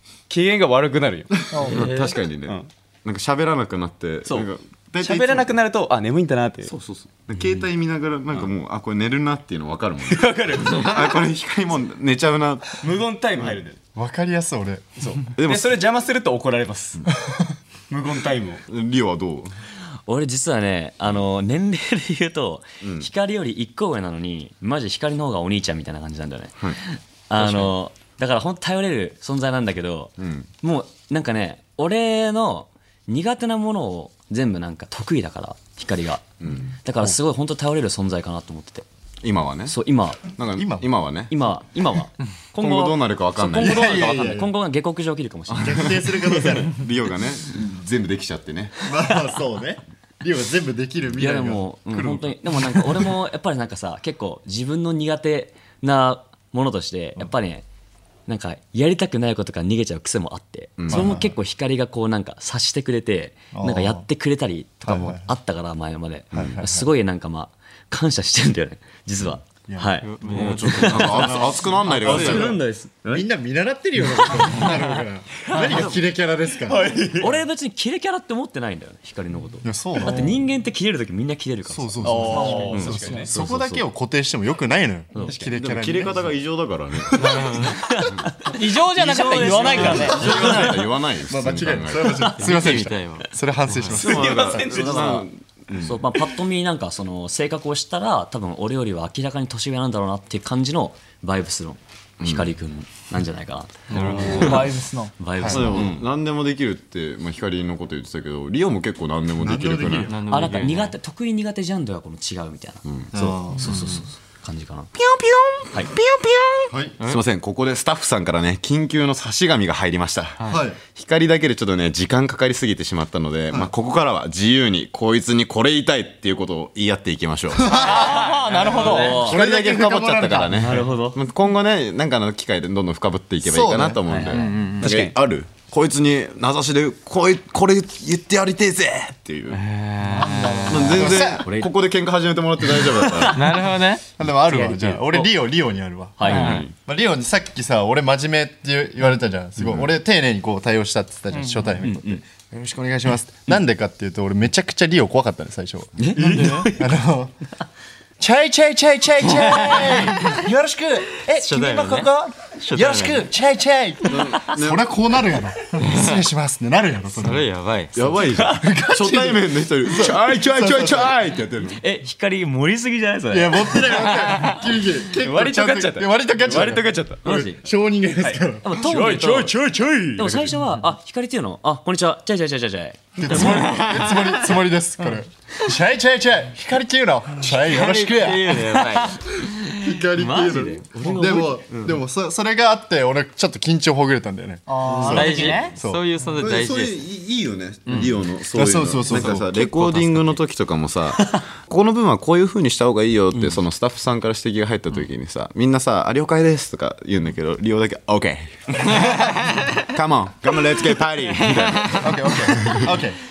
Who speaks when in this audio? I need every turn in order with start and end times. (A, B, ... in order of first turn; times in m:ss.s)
0:00.3-0:01.4 A
0:01.5-0:01.9 B
0:01.6-0:05.5 C
0:01.7-0:02.2 D
0:04.2-0:06.7 A
0:06.6-0:12.8 C
0:10.0-0:11.2 A
0:12.8-0:13.8 A
0:13.9-0:15.0 E
0:15.0-0:17.1 A
0:15.4-0:15.8 C
0:17.2-0:17.5 E
0:17.9-0:18.6 A
0:18.7-0:19.6 C
0:20.1-0:36.2 F
0:22.8-0:23.1 C
0:27.4-0:27.7 C
0:30.2-0:30.5 C
0:36.4-0:36.8 C
0:36.8-0:38.9 F
0:39.2-0:41.3 C
0:39.7-0:40.4 F
0:40.6-0:40.9 E
0:41.3-0:45.9 F
0:42.6-0:44.2 C
0:43.5-0:44.5 E
0:45.5-0:48.8 C
0:45.6-0:46.7 E
0:48.8-0:53.1 E
0:51.2-0:57.6 F
0:58.3-1:11.5 F
1:00.8-1:01.2 C
1:00.9-1:01.4 E
1:03.5-1:04.1 E
1:04.8-1:05.3 E
1:06.3-1:06.6 C
1:06.3-1:06.9 E
1:09.7-1:12.6 E
1:10.0-1:11.4 D
1:10.3-1:12.6 C
1:12.0-1:13.2 A
1:12.1-1:12.4 D
1:12.1-1:12.9 F
1:13.1-1:17.0 E
1:15.5-1:16.0 F
1:16.6-1:17.4 A
1:17.2-1:23.8 F
1:19.6-1:20.4 E
1:21.7-1:26.3 E
1:22.0-1:23.4 A
1:22.3-1:23.3 B
1:25.2-1:25.6 A
1:25.5-1:27.2 C
1:27.1-1:27.6 E
1:27.2-1:27.8 D
1:27.8-1:30.8 F
1:28.5-1:30.3 B
1:29.7-1:34.6 E
1:29.7-1:32.3 C
1:30.1-1:30.7 D
1:32.3-1:33.2 D
1:33.9-1:36.1 C
1:33.9-1:35.2 A
1:34.7-1:35.3 F
1:35.8-1:44.6 F
1:42.2-1:42.5 C
1:43.9-1:44.6 D
1:43.9-1:44.7 C
1:44.3-1:45.1 B
1:45.2-1:46.0 F
1:45.4-1:45.9 E
1:45.4-1:50.2 C
1:49.4-1:50.1 E
1:50.1-1:50.9 D
1:50.2-1:54.9 F
1:53.1-1:53.7 E
1:55.0-1:56.7 A
1:56.7-1:56.9 E
1:57.0-2:19.6 C
2:00.5-2:00.8 E
2:07.5-2:10.8 E
2:07.7-2:09.2 B
2:08.7-2:09.4 F
2:08.8-2:09.1 D
2:10.5-2:11.2 F
2:13.4-2:14.0 E
2:14.1-2:14.4 F
2:14.3-2:14.9 D
2:14.8-2:15.1 A
2:19.5-2:21.1 D
2:20.1-2:21.0 B
2:20.5-2:21.5 E
2:20.7-2:23.4 C
2:21.4-2:21.7 F
2:23.3-2:24.0 D
2:24.2-2:37.4 E
2:24.6-2:25.3 F
2:26.2-2:26.7 F
2:26.2-2:26.7 C
2:29.6-2:29.9 C
2:31.3-2:31.6 B
2:31.8-2:32.2 F
2:36.0-2:36.9 F
2:36.2-2:36.6 B
2:38.2-2:47.4 E
2:39.5-2:40.1 D
2:41.3-2:43.3 D
2:44.1-2:44.8 C
2:45.8-2:46.2 D
2:47.1-2:48.0 D
2:47.9-2:51.8 C
2:48.5-2:51.1 E
2:51.8-2:54.3 F
2:53.3-2:56.9 E
2:55.1-2:57.5 A
2:57.2-2:57.6 F
2:57.5-2:58.7 E
2:58.2-3:00.6 A
2:58.6-2:59.6 F
3:00.2-3:03.7 F
3:03.2-3:08.6 E
3:03.4-3:04.4 D
3:07.5-3:09.2 D
3:09.5-3:16.0 E
3:09.7-3:11.6 F
3:14.7-3:15.7 B
3:14.8-3:17.0 D
3:15.3-3:15.6 F
3:16.4-3:29.3 C
3:17.9-3:18.2 D
3:18.5-3:19.5 E
3:19.1-3:20.4 D
3:19.8-3:20.4 F
3:21.2-3:21.4 F
3:29.1-3:29.7 D
3:29.8-3:32.9 C
3:31.4-3:32.6 D
3:32.0-3:33.2 E